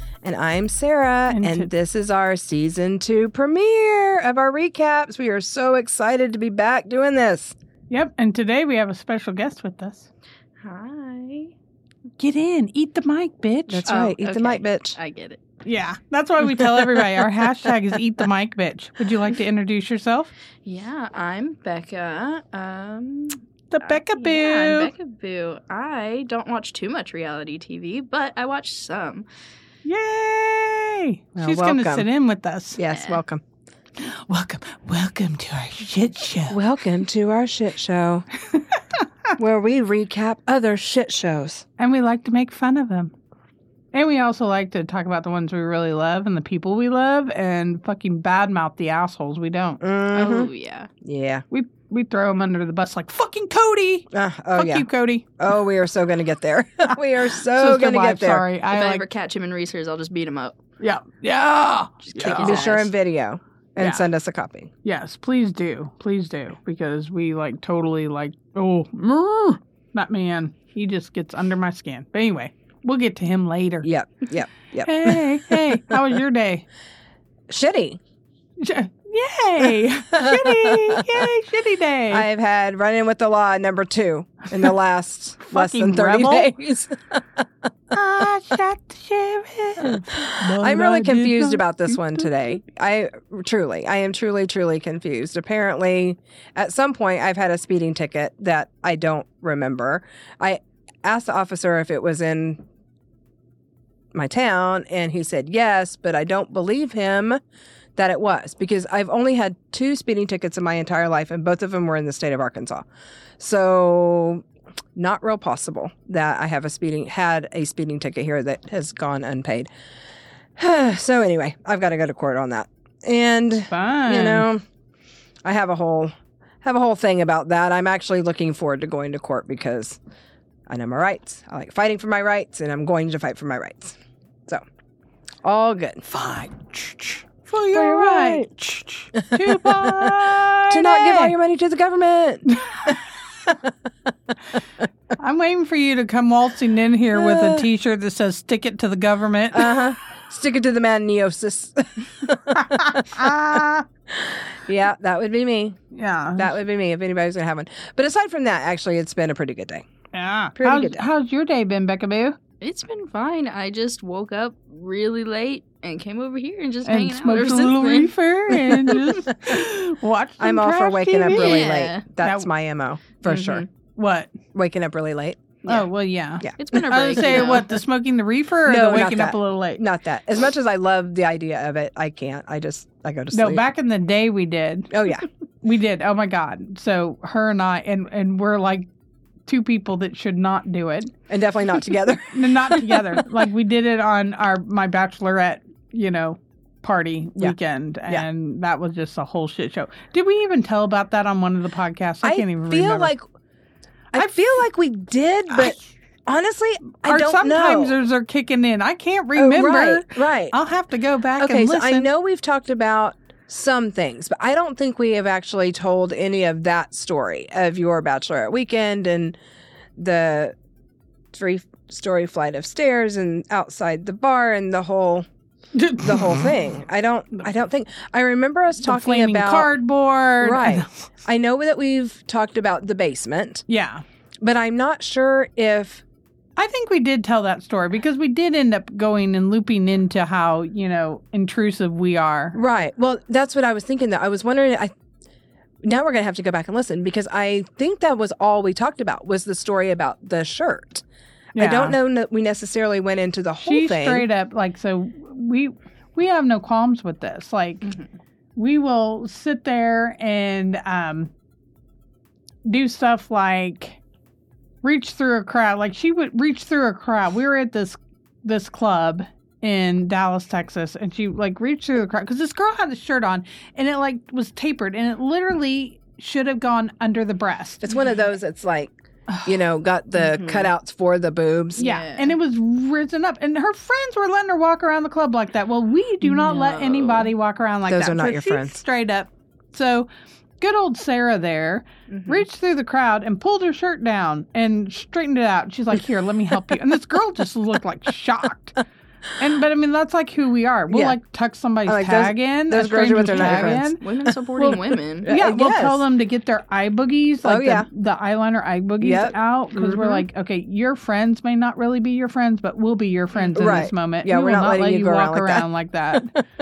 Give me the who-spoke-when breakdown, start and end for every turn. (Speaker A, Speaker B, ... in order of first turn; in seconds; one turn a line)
Speaker A: 0.2-7.5
Speaker B: 1.3-1.7
Speaker B: 7.9-10.1
Speaker C: 10.6-11.5
Speaker B: 12.2-14.2
Speaker A: 13.7-15.0
Speaker C: 13.9-15.4
Speaker B: 15.6-20.3
Speaker C: 20.6-29.3
Speaker B: 23.7-24.9
Speaker B: 29.9-32.8
Speaker A: 31.4-32.1
Speaker A: 32.8-33.4
Speaker C: 32.9-33.2
Speaker B: 34.0-36.6
Speaker A: 36.5-38.3
Speaker B: 38.5-39.0
Speaker A: 39.4-41.6
Speaker B: 41.8-43.1
Speaker B: 43.9-49.8
Speaker A: 49.8-50.5
Speaker C: 50.1-50.9
Speaker A: 51.0-51.4
Speaker B: 51.5-55.3
Speaker A: 54.1-54.9
Speaker A: 55.4-58.5
Speaker B: 57.5-59.0
Speaker C: 58.7-60.6
Speaker B: 60.8-62.7
Speaker C: 62.1-62.9
Speaker A: 62.2-64.7
Speaker B: 63.8-64.0
Speaker B: 64.8-73.9
Speaker A: 73.8-75.6
Speaker B: 74.8-76.7
Speaker A: 77.5-78.0
Speaker B: 78.6-82.2
Speaker A: 80.1-81.2
Speaker A: 82.1-87.2
Speaker B: 85.4-86.5
Speaker B: 87.9-92.3
Speaker A: 90.6-102.6
Speaker A: 104.1-107.4
Speaker A: 108.0-112.9
Speaker A: 113.4-119.7
Speaker A: 120.6-124.6
Speaker B: 123.7-124.5
Speaker A: 125.5-130.0
Speaker A: 130.7-134.0
Speaker A: 135.4-136.0
Speaker B: 136.1-141.3
Speaker A: 137.7-138.5
Speaker A: 139.2-140.2
Speaker A: 140.7-143.7
Speaker B: 142.5-143.0
Speaker B: 145.2-149.8
Speaker A: 147.1-147.7
Speaker A: 149.5-153.3
Speaker B: 152.5-153.8
Speaker A: 154.1-155.8
Speaker B: 155.9-156.6
Speaker A: 156.4-159.8
Speaker B: 160.1-162.4
Speaker A: 160.6-161.1
Speaker C: 162.6-168.1
Speaker B: 166.8-172.5
Speaker A: 170.4-173.7
Speaker C: 171.3-172.0
Speaker C: 173.2-173.7
Speaker B: 173.9-174.4
Speaker A: 174.5-175.7
Speaker B: 175.7-179.8
Speaker A: 176.4-177.6
Speaker C: 176.6-177.8
Speaker A: 178.7-183.6
Speaker B: 183.3-184.9
Speaker A: 184.9-185.3
Speaker B: 185.6-188.9
Speaker B: 189.5-191.1
Speaker A: 191.3-193.2
Speaker B: 192.3-203.1
Speaker A: 202.2-203.2
Speaker A: 204.1-207.9
Speaker B: 205.5-205.8
Speaker B: 207.0-212.1
Speaker A: 209.3-210.6
Speaker A: 211.4-219.4
Speaker A: 220.0-220.6
Speaker A: 221.3-225.3
Speaker B: 225.8-226.5
Speaker A: 226.0-229.7
Speaker B: 228.8-231.0
Speaker A: 230.4-233.7
Speaker B: 233.7-234.0
Speaker A: 234.4-236.0
Speaker B: 236.6-242.6
Speaker A: 242.5-244.9
Speaker A: 245.8-251.0
Speaker B: 251.6-252.0
Speaker A: 251.6-254.3
Speaker B: 253.6-257.9
Speaker B: 258.6-261.3
Speaker B: 262.6-264.0
Speaker B: 264.8-277.8
Speaker A: 277.8-278.9
Speaker A: 279.4-281.9
Speaker C: 280.2-280.7
Speaker C: 281.8-282.3
Speaker B: 281.8-290.1
Speaker C: 286.3-287.3
Speaker A: 287.9-288.8
Speaker B: 290.6-298.8
Speaker C: 292.1-292.5
Speaker B: 299.4-304.0
Speaker A: 300.9-301.2
Speaker A: 301.9-303.8
Speaker C: 303.3-305.3
Speaker B: 304.6-316.3
Speaker A: 305.2-306.0
Speaker A: 307.4-307.9
Speaker A: 309.0-310.2
Speaker C: 313.3-313.8
Speaker A: 313.6-316.4